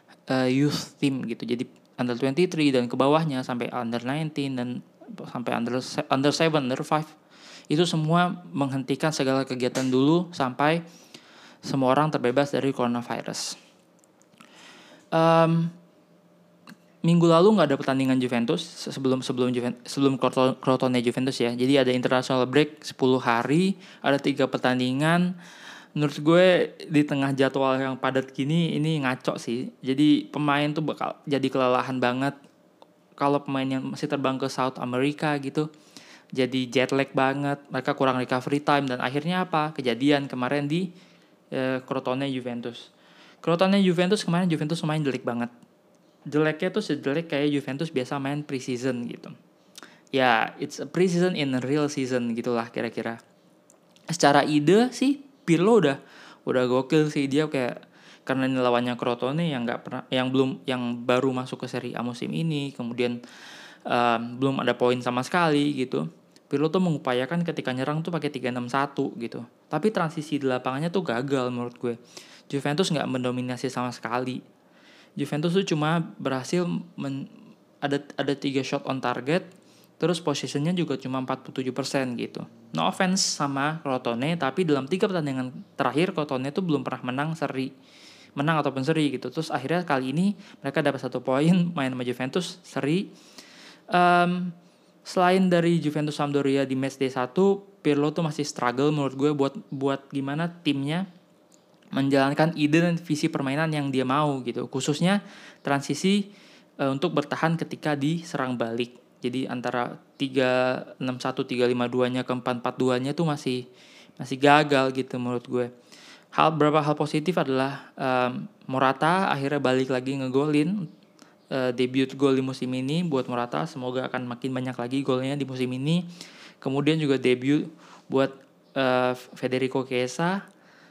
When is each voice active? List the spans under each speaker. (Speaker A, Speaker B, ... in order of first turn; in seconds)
Speaker A: 0.3-7.1, 7.7-10.8, 11.6-13.6, 15.1-15.7, 17.0-25.3, 25.9-32.3, 33.2-35.7, 36.4-40.9, 41.5-42.9, 43.4-45.5, 46.3-49.3, 50.1-53.2, 54.1-63.2, 63.9-72.0, 72.5-74.4, 75.2-77.3, 77.8-79.5, 80.0-87.7, 88.4-93.1, 93.9-94.5, 95.0-101.0, 101.9-106.3, 106.8-113.6, 114.2-115.7, 116.3-120.9, 121.5-126.0, 126.6-130.4